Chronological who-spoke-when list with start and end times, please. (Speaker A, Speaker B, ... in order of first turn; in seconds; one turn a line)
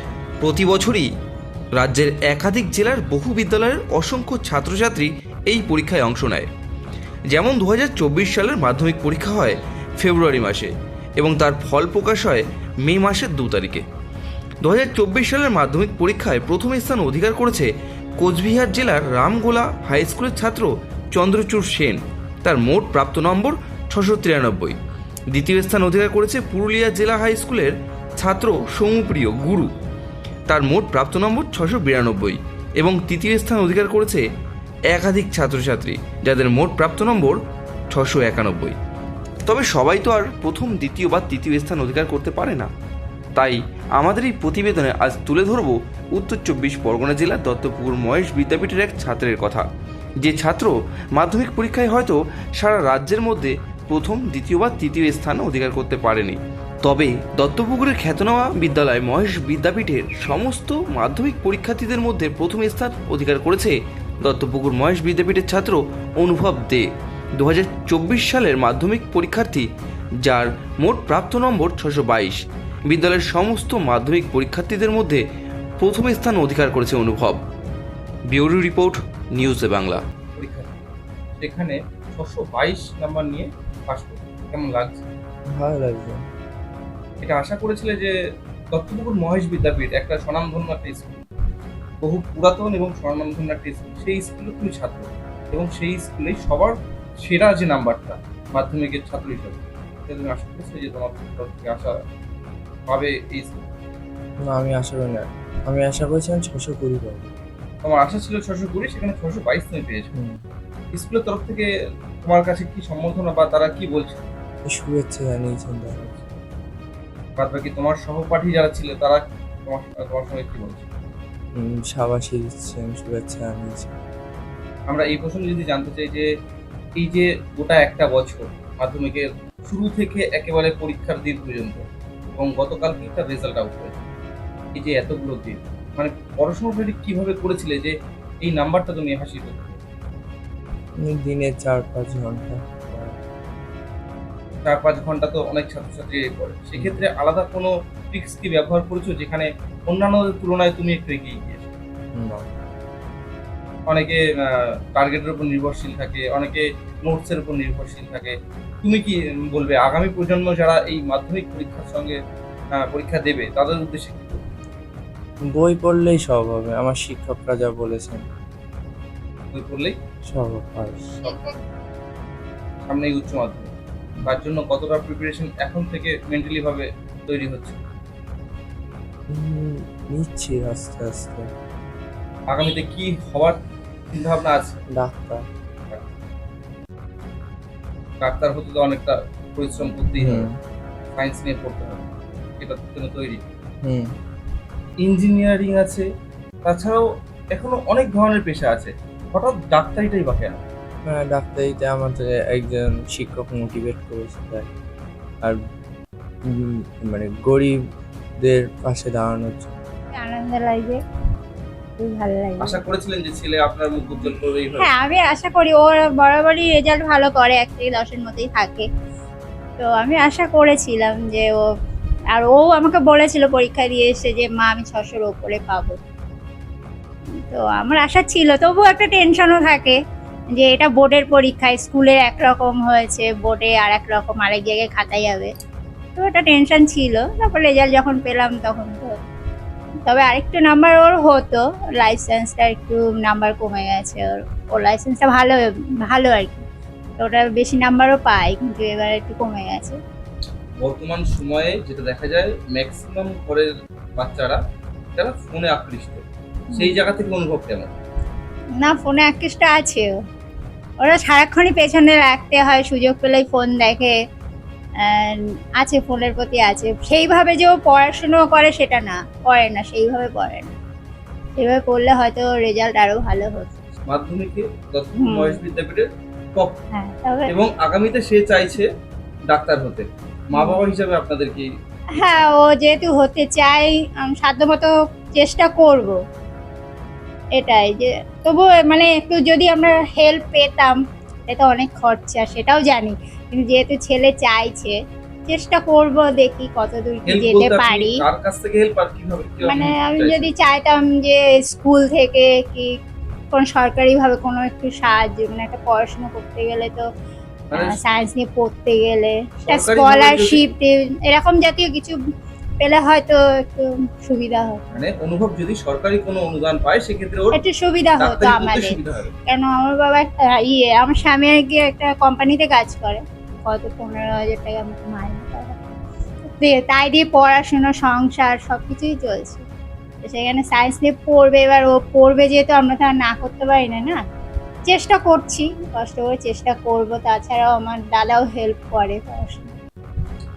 Speaker A: 0.4-1.1
Speaker A: 1.8-6.5
Speaker A: 7.3-13.8
Speaker A: 14.6-24.8
Speaker A: 25.3-29.7
Speaker A: 30.5-34.2
Speaker A: 34.9-37.4
Speaker A: 37.9-38.8
Speaker A: 39.5-42.7
Speaker A: 43.4-49.6
Speaker A: 50.2-66.9
Speaker A: 67.4-69.7
Speaker A: 70.2-75.2
Speaker A: 75.8-77.4
Speaker A: 78.3-80.0
Speaker B: 80.3-80.8
Speaker B: 81.4-85.0
Speaker C: 85.5-86.2
Speaker B: 87.2-88.1
Speaker B: 88.7-91.3
Speaker B: 92.0-102.0
Speaker B: 102.9-103.6
Speaker C: 104.5-107.3
Speaker B: 107.8-110.1
Speaker C: 110.2-110.4
Speaker B: 110.9-111.7
Speaker B: 112.2-114.3
Speaker C: 114.7-116.4
Speaker B: 117.4-120.9
Speaker C: 121.6-124.0
Speaker B: 124.9-126.3
Speaker B: 127.0-134.1
Speaker B: 134.7-139.8
Speaker C: 141.1-143.2
Speaker B: 144.6-151.7
Speaker C: 146.8-147.0
Speaker C: 152.2-152.4
Speaker B: 153.9-162.2
Speaker B: 162.8-164.4
Speaker C: 165.5-168.2
Speaker B: 169.5-169.9
Speaker C: 170.3-171.2
Speaker B: 172.8-173.7
Speaker B: 174.2-177.8
Speaker C: 179.3-181.4
Speaker B: 182.5-183.6
Speaker B: 184.1-184.8
Speaker C: 184.9-185.4
Speaker B: 188.2-190.5
Speaker C: 190.2-190.5
Speaker B: 191.2-192.1
Speaker B: 192.6-193.4
Speaker B: 195.0-196.1
Speaker B: 196.6-197.0
Speaker B: 197.5-200.6
Speaker C: 201.1-204.7
Speaker C: 206.5-207.8
Speaker C: 208.4-209.8
Speaker D: 210.1-211.0
Speaker D: 212.0-212.8
Speaker B: 212.6-214.9
Speaker D: 214.8-218.9
Speaker D: 219.8-221.5
Speaker D: 222.3-226.0
Speaker D: 227.4-230.0
Speaker D: 230.5-235.5
Speaker D: 236.2-239.1
Speaker D: 240.0-246.7
Speaker D: 247.2-250.0
Speaker B: 250.8-254.6
Speaker B: 255.2-257.9
Speaker D: 256.7-257.0
Speaker D: 258.8-260.1
Speaker D: 261.0-264.1
Speaker D: 265.0-270.7
Speaker D: 271.6-273.8
Speaker B: 274.1-276.8
Speaker D: 275.2-275.6
Speaker D: 276.9-277.5
Speaker B: 277.5-278.9
Speaker B: 279.5-282.4
Speaker D: 280.5-280.9
Speaker D: 282.2-286.2
Speaker D: 287.6-294.9
Speaker D: 295.5-298.2
Speaker B: 297.3-300.5
Speaker D: 299.6-302.9
Speaker D: 303.5-307.1
Speaker B: 307.7-308.0
Speaker D: 307.7-312.2
Speaker B: 309.6-310.7
Speaker D: 312.8-315.0
Speaker B: 314.9-317.6
Speaker D: 317.6-325.8
Speaker B: 318.2-319.3
Speaker D: 326.6-329.7
Speaker D: 330.2-334.2
Speaker D: 334.9-339.8